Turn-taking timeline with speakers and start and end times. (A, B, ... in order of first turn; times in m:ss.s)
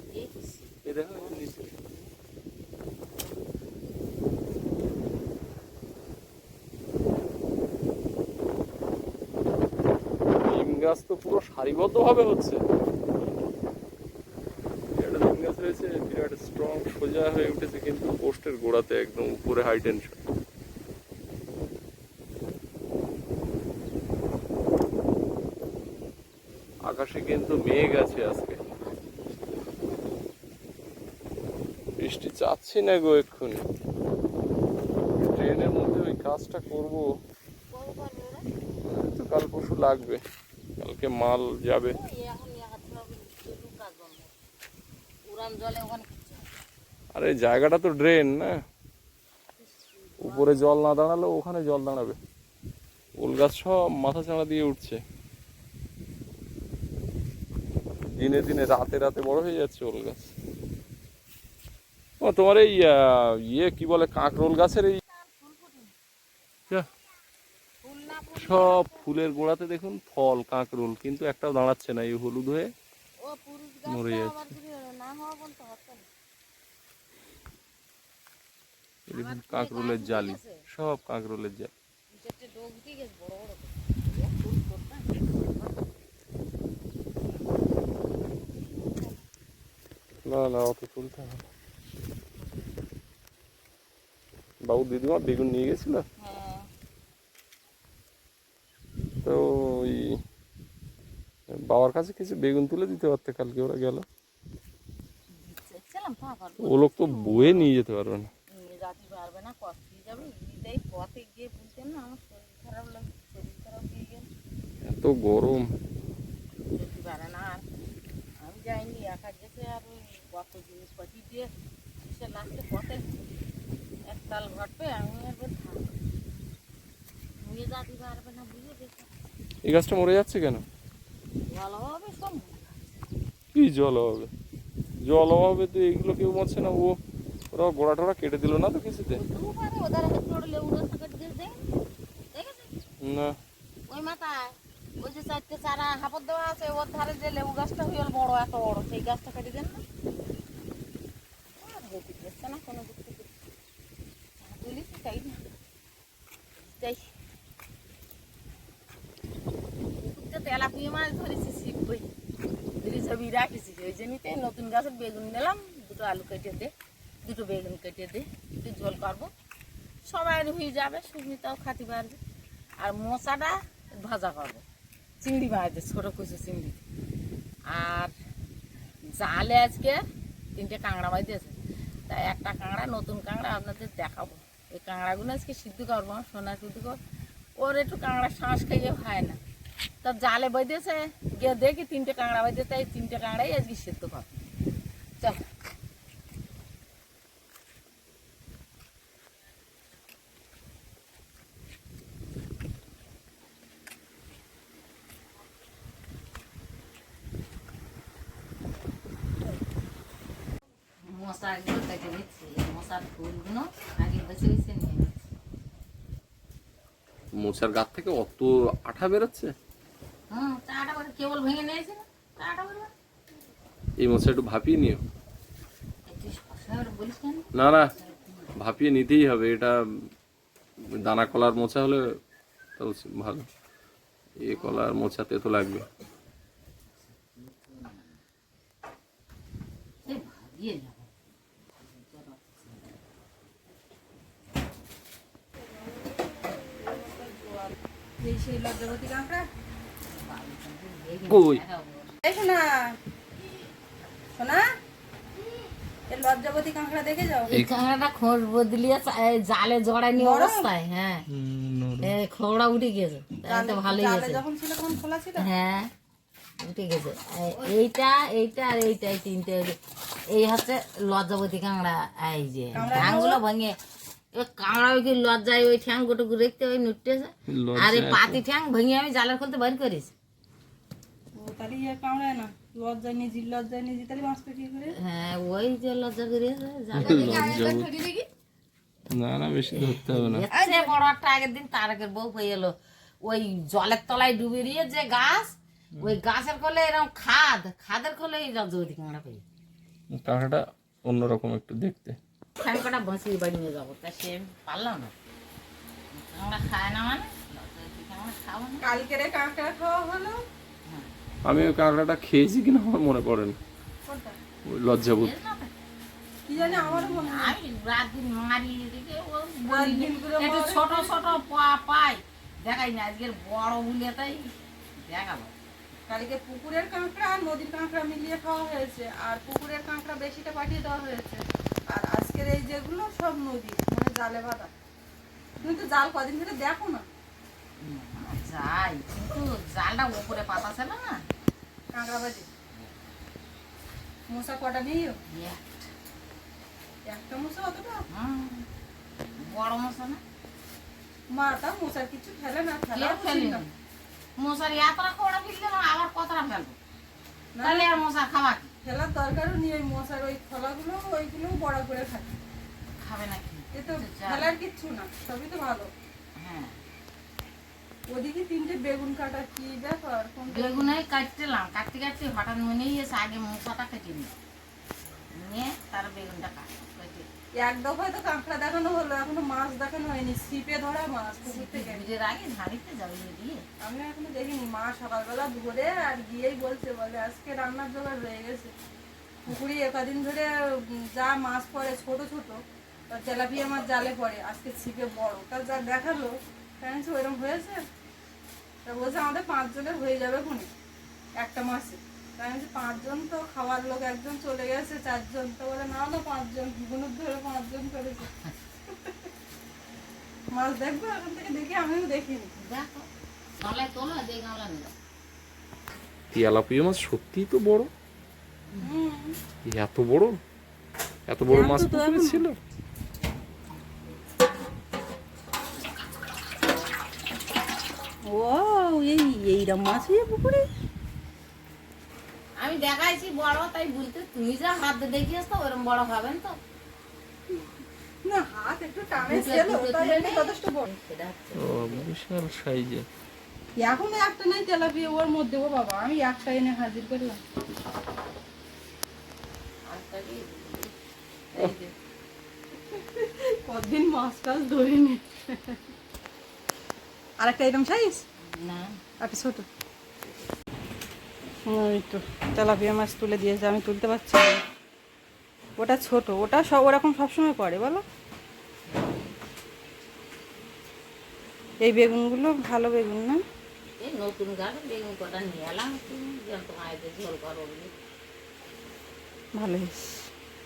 0:00.1-0:02.1 A
0:00.8-0:01.6 B
0:10.4-0:12.6 B
0:15.0-0:20.2 B
0:26.8-0:28.6 B
0:28.9-0:30.0 A
0:32.0-0:33.6 B
0:35.2-0:37.1 B
0:37.7-0:38.5 A
0:38.8-0:40.2 B
0:40.8-0:42.0 B
0:41.9-0:44.3 A
0:45.3-0:46.5 A
0:47.2-0:48.6 B
0:49.6-0:50.7 A
0:50.2-0:52.2 B
0:53.2-0:55.0 B
0:58.2-1:00.3 B
1:02.2-1:05.0 B
1:05.1-1:05.9 A
1:07.8-1:09.1 A
1:08.4-1:12.7 B
1:13.2-1:16.1 A
1:13.9-1:14.5 B
1:19.1-1:21.7 B
1:19.1-1:20.6 A
1:22.1-1:25.8 A
1:30.2-1:31.4 B
1:34.6-1:36.0 B
1:36.2-1:36.7 A
1:39.2-1:40.2 B
1:41.5-1:44.1 B
1:45.3-1:47.7 A
1:46.6-1:48.3 B
1:48.5-1:54.3 A
1:54.8-1:55.7 B
1:56.7-1:57.6 A
1:58.4-2:03.3 A
2:04.1-2:05.9 A
2:07.4-2:09.1 A
2:09.6-2:10.6 B
2:11.5-2:12.8 A
2:13.5-2:14.3 B
2:15.0-2:17.0 B
2:17.5-2:19.2 B
2:19.2-2:21.7 A
2:22.3-2:22.8 A
2:23.0-2:23.4 B
2:23.9-2:29.8 A
2:31.6-2:33.3 A
2:34.4-2:35.4 A
2:36.6-2:37.1 A
2:40.0-2:42.1 A
2:42.8-2:46.7 A
2:47.2-2:49.3 A
2:50.1-2:52.2 A
2:52.8-2:54.6 A
2:55.2-2:56.8 A
2:57.7-2:58.1 A
2:59.2-3:00.0 A
3:00.6-3:07.0 A
3:07.6-3:09.4 A
3:10.0-3:14.4 A
3:15.2-3:15.5 A
3:31.0-3:35.2 A
3:37.3-3:39.5 B
3:40.3-3:42.9 A
3:44.0-3:45.0 B
3:46.1-3:48.5 A
3:47.5-3:47.9 B
3:48.6-3:49.8 B
3:50.9-3:52.2 B
3:52.8-3:53.5 B
3:54.4-3:55.9 B
3:54.5-3:54.9 A
3:56.9-3:58.2 A
4:00.0-4:01.2 A
4:01.8-4:03.0 A
4:06.6-4:09.5 C
4:10.0-4:12.2 A
4:11.3-4:11.6 B
4:12.2-4:13.0 C
4:14.4-4:14.7 C
4:16.1-4:17.5 C
4:17.5-4:21.2 A
4:20.2-4:20.7 C
4:21.3-4:22.1 B
4:22.0-4:24.4 A
4:23.5-4:25.5 C
4:25.4-4:25.9 A
4:26.6-4:29.8 A
4:30.3-4:33.8 A
4:32.7-4:33.4 C
4:34.3-4:40.1 A
4:37.5-4:38.4 B
4:41.4-4:45.0 C
4:44.9-4:48.3 A
4:46.9-4:47.9 B
4:47.1-4:47.7 C
4:49.1-4:50.4 B
4:49.8-4:59.4 A
5:00.1-5:02.2 B
5:02.6-5:05.1 A
5:06.1-5:08.9 A
5:08.8-5:10.4 C
5:11.4-5:13.6 B
5:14.1-5:14.4 C
5:14.7-5:15.3 B
5:15.1-5:15.7 A
5:16.5-5:17.6 C
5:16.6-5:25.5 A
5:19.7-5:21.4 C
5:26.1-5:34.7 C
5:35.6-5:35.8 A
5:35.6-5:37.0 C
5:37.8-5:41.2 A
5:41.9-5:42.5 C
5:44.3-5:45.2 C
5:45.3-5:45.9 A
5:47.0-5:48.0 C
5:48.1-5:48.7 A
5:49.4-5:50.2 A
5:51.3-5:53.6 C
5:52.9-5:53.7 A
5:54.4-5:56.8 A
5:57.6-5:57.9 C
5:57.6-5:58.7 A
5:58.8-6:02.3 C
6:03.0-6:04.5 A
6:03.7-6:05.9 C
6:06.4-6:06.8 A
6:08.1-6:10.9 C
6:10.5-6:14.4 A
6:15.4-6:17.3 A
6:17.6-6:22.0 C
6:21.4-6:23.6 A
6:23.8-6:28.7 C
6:29.5-6:37.8 C
6:38.9-6:40.7 C
6:41.4-6:48.3 C
6:50.5-6:52.5 C
6:52.6-6:53.1 A
6:53.6-6:54.9 A
6:56.3-6:57.9 B
6:58.8-6:59.4 C
6:59.6-7:00.4 B
7:01.3-7:02.6 B
7:01.5-7:02.4 C
7:08.3-7:10.7 C
7:12.6-7:16.6 A
7:18.2-7:20.8 C
7:19.2-7:22.1 A
7:21.6-7:23.1 B
7:23.8-7:27.4 C
7:29.8-7:30.9 A
7:31.5-7:31.9 A
7:32.9-7:35.8 C
7:37.4-7:38.2 C
7:38.4-7:39.0 A
7:39.2-7:39.7 C
7:41.7-7:44.6 C
7:45.8-7:48.0 C
7:48.9-7:49.3 A
7:51.8-7:53.4 C
7:54.0-7:57.9 A
7:59.5-8:00.3 C